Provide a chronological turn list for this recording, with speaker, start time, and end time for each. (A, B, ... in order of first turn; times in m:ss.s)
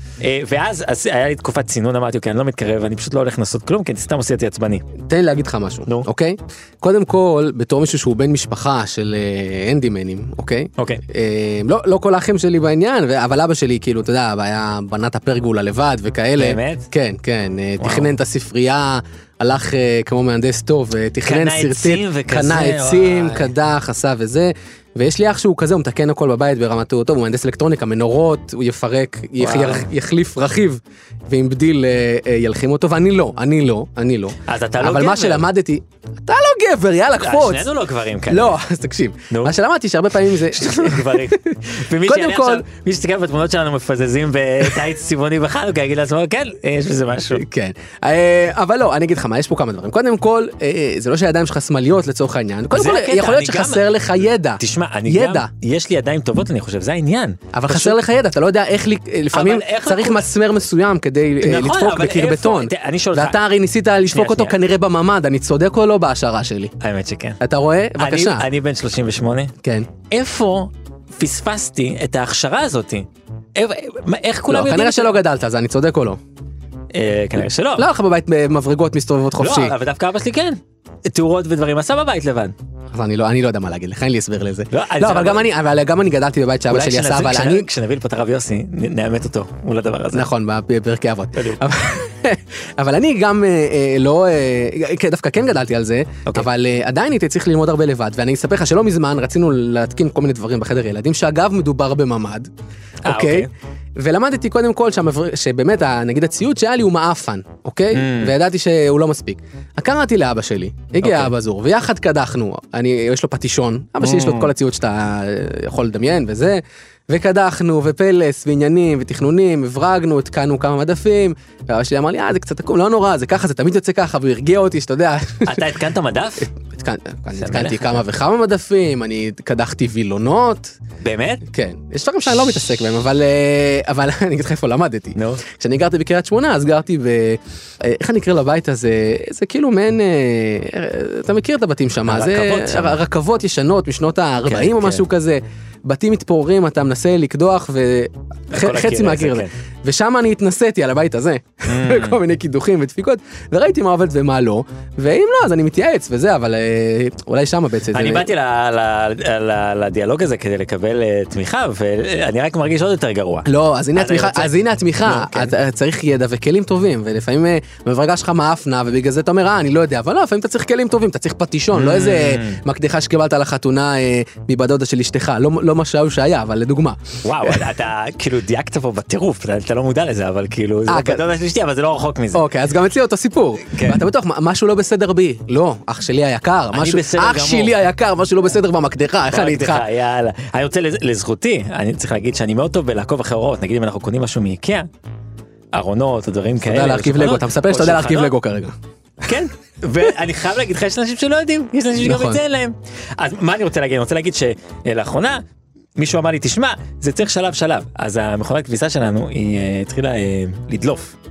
0:00.2-0:04.8 A
0:05.0-0:37.7 B
0:16.4-0:16.9 A
0:17.8-0:18.1 A
0:21.2-0:23.5 A
0:29.4-0:29.9 A
0:34.5-0:35.5 A
0:37.2-0:38.6 A
0:38.3-0:42.7 B
0:39.3-0:39.6 A
0:40.4-0:47.4 A
0:47.3-0:55.5 B
0:52.7-0:53.8 A
0:54.6-0:58.0 A
0:57.5-1:06.7 B
0:59.3-1:00.2 A
1:01.4-1:03.4 A
1:04.1-1:04.6 A
1:06.8-1:07.4 A
1:07.4-1:08.4 B
1:08.0-1:09.5 A
1:09.6-1:09.9 B
1:10.1-1:15.2 A
1:14.5-1:16.2 B
1:16.9-1:17.9 A
1:17.8-1:19.8 B
1:19.4-1:22.6 A
1:22.9-1:27.7 B
1:24.7-1:25.5 A
1:26.7-1:30.3 A
1:30.1-1:42.5 B
1:31.4-1:31.6 A
1:43.0-1:43.5 A
1:43.1-2:05.6 B
1:47.9-1:48.3 A
1:51.0-1:51.3 A
1:54.0-1:54.5 A
2:05.4-2:06.5 A
2:06.6-2:10.8 B
2:07.4-2:08.0 A
2:11.0-2:11.4 A
2:11.5-2:38.3 B
2:15.2-2:15.4 A
2:22.1-2:23.0 A
2:24.5-2:25.0 A
2:28.5-2:29.5 A
2:31.7-2:32.2 A
2:37.9-2:45.5 A
2:43.5-2:57.6 B
2:51.7-2:52.6 A
2:57.2-3:02.4 A
3:00.9-3:01.2 B
3:02.3-3:09.9 B
3:03.7-3:04.0 A
3:06.7-3:07.7 A
3:09.3-3:14.9 A
3:15.7-3:18.3 A
3:16.6-3:18.8 B
3:19.2-3:25.4 A
3:22.0-3:22.4 B
3:26.0-3:31.2 A